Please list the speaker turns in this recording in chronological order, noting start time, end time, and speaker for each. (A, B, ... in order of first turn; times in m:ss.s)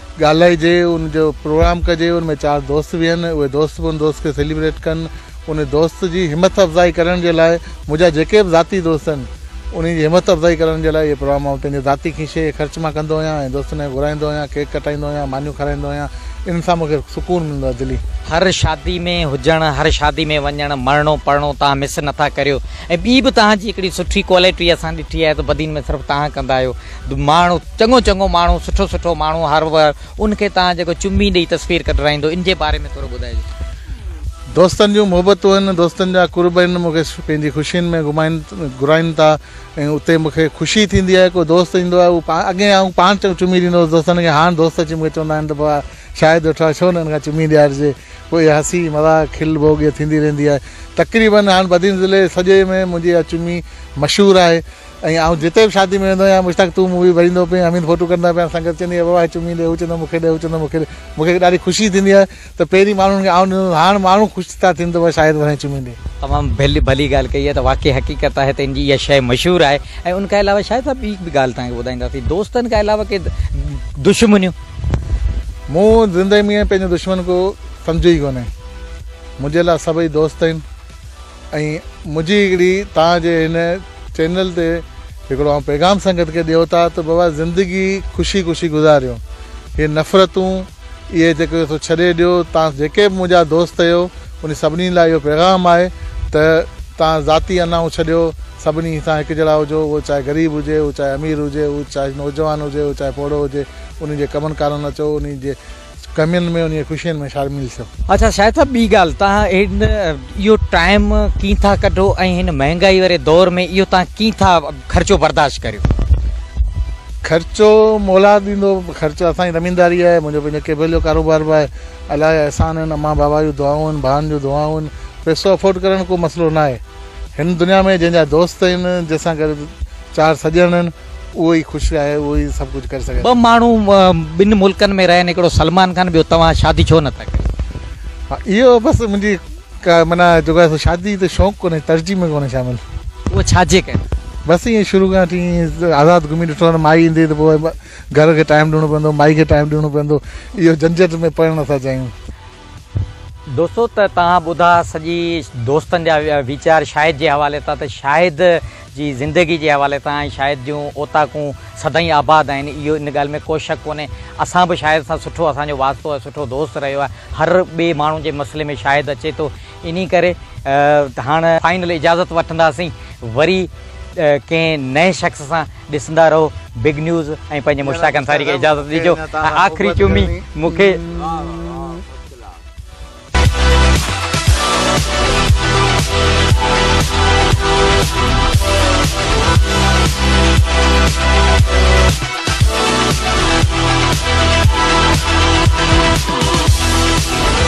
0:00.2-0:18.0 A
0:18.3-0:33.5 B
0:34.5-1:06.0 A
1:06.2-1:14.6 B
1:15.7-1:18.5 A
1:19.4-1:20.6 A
1:21.5-1:29.2 A
1:29.8-1:45.6 A
1:46.2-1:47.9 A
1:48.1-1:55.9 B
1:57.2-2:06.8 A
2:07.4-2:13.4 A
2:13.2-2:17.5 B
2:18.3-2:22.8 A
2:23.3-2:24.0 B
2:24.4-2:32.1 A
2:33.5-3:01.0 B
2:57.8-3:02.0 A